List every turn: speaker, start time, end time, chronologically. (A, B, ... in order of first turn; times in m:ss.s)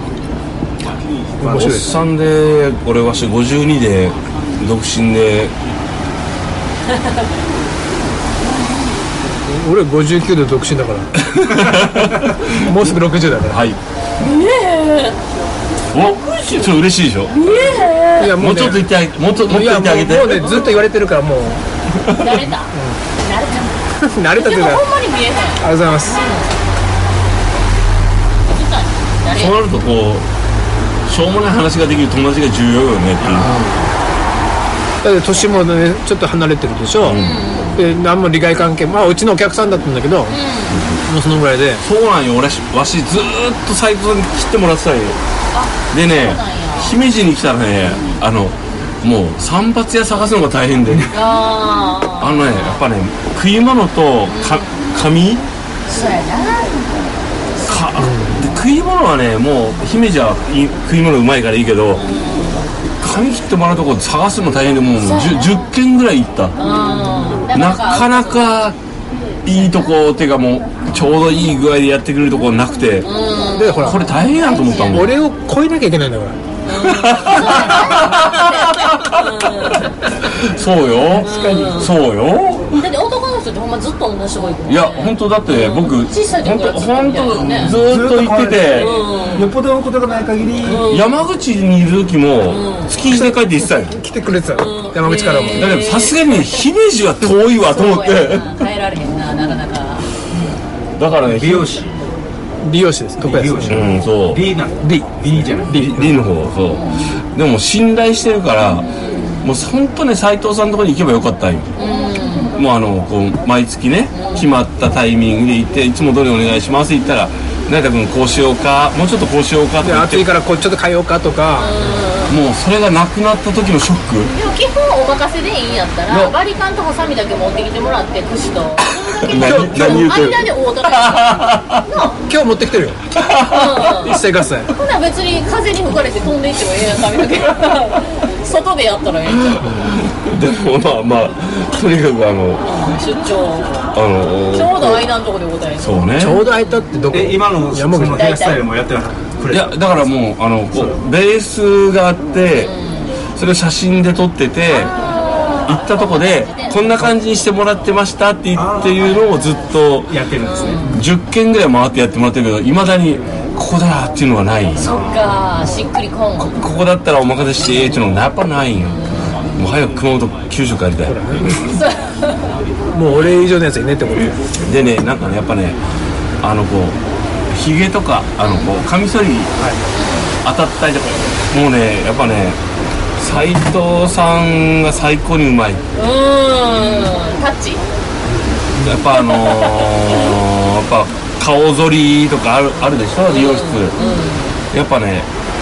0:01.4-0:01.9 A
0:01.5-0:05.5 B
0:09.4-0:11.1 A
0:11.2-0:13.8 B
0:12.5-0:13.6 A
0:14.2-0:15.2 C
0:15.9-0:17.7 B
0:15.9-0:16.7 C
0:17.3-0:18.4 C
0:18.2-0:18.8 A
0:18.2-0:20.8 B
0:19.4-0:23.0 A
0:20.4-0:20.8 C
0:22.2-0:23.8 C
0:24.0-0:24.8 A
0:24.3-0:26.6 C
0:25.6-0:26.2 A
0:28.4-0:29.6 C
0:29.3-0:30.3 B
0:31.1-0:33.5 B
0:33.4-0:33.8 A
0:33.4-0:33.8 C
0:35.0-0:37.2 A
0:35.3-0:35.6 C
0:37.0-0:37.4 B
0:37.1-0:37.8 C
0:37.7-0:40.4 A
0:40.3-0:40.8 C
0:40.7-0:41.0 B
0:41.1-0:41.8 A
0:41.8-0:45.2 B
0:45.5-0:47.0 C
0:45.9-0:51.2 B
0:51.1-0:52.8 C
0:52.2-0:55.4 B
0:54.2-0:54.8 C
0:55.9-0:56.9 C
0:57.6-1:02.0 B
0:58.0-0:58.4 A
1:01.9-1:02.7 C
1:03.0-1:06.6 B
1:05.0-1:05.7 C
1:06.6-1:08.6 C
1:07.5-1:08.8 B
1:09.4-1:13.1 B
1:13.0-1:15.2 C
1:13.6-1:14.1 A
1:13.7-1:15.1 B
1:14.9-1:16.4 A
1:16.6-1:19.9 C
1:16.8-1:22.8 B
1:21.2-1:21.8 D
1:21.2-1:21.9 C
1:22.7-1:27.8 C
1:24.7-1:29.1 B
1:27.6-1:30.9 D
1:28.7-1:29.5 C
1:30.6-1:31.2 C
1:30.8-1:34.0 B
1:32.4-1:32.9 C
1:33.1-1:35.8 A
1:34.5-1:36.6 C
1:35.5-1:38.6 B
1:37.6-1:40.1 C
1:41.0-1:41.8 B
1:41.2-1:42.0 E
1:42.6-1:43.8 A
1:43.2-1:45.9 E
1:43.7-1:44.5 B
1:44.8-1:45.1 A
1:45.7-1:46.1 A
1:45.7-1:48.9 B
1:46.7-1:47.0 C
1:48.8-1:49.5 C
1:49.4-1:51.7 B
1:51.8-1:52.5 C
1:52.5-2:00.3 B
1:54.1-1:54.4 C
1:59.8-2:01.7 A
2:01.6-2:02.4 C
2:02.3-2:04.3 B
2:04.3-2:12.2 C
2:06.1-2:06.3 B
2:08.8-2:11.9 B
2:09.3-2:10.3 A
2:12.3-2:13.0 A
2:13.1-2:14.0 B
2:13.5-2:19.9 C
2:13.6-2:14.7 A
2:19.5-2:22.8 B
2:19.6-2:20.0 A
2:22.6-2:23.8 C
2:23.9-2:25.1 B
2:24.5-2:26.9 C
2:25.8-2:26.4 B
2:26.2-2:28.3 A
2:27.1-2:29.8 E
2:28.1-2:28.6 C
2:29.5-2:32.7 B
2:32.5-2:33.2 C
2:33.4-2:35.0 B
2:34.7-2:37.0 C
2:35.6-2:40.1 B
2:38.5-2:39.2 E
2:40.1-2:40.9 E
2:40.4-2:41.0 C
2:40.9-2:44.9 B
2:44.8-2:46.5 C
2:46.4-2:51.6 B
2:48.8-2:49.4 C
2:51.0-2:51.5 A
2:51.6-2:52.4 C
2:52.9-2:54.4 A
2:54.6-2:55.8 B
2:56.4-2:57.0 B
2:57.5-2:59.5 B
2:58.4-2:58.7 C
2:59.9-3:00.4 C
3:00.4-3:02.6 B
3:03.2-3:05.8 B
3:05.9-3:07.8 C
3:08.8-3:14.0 B
3:09.1-3:10.3 C
3:13.3-3:14.6 C
3:14.7-3:15.3 B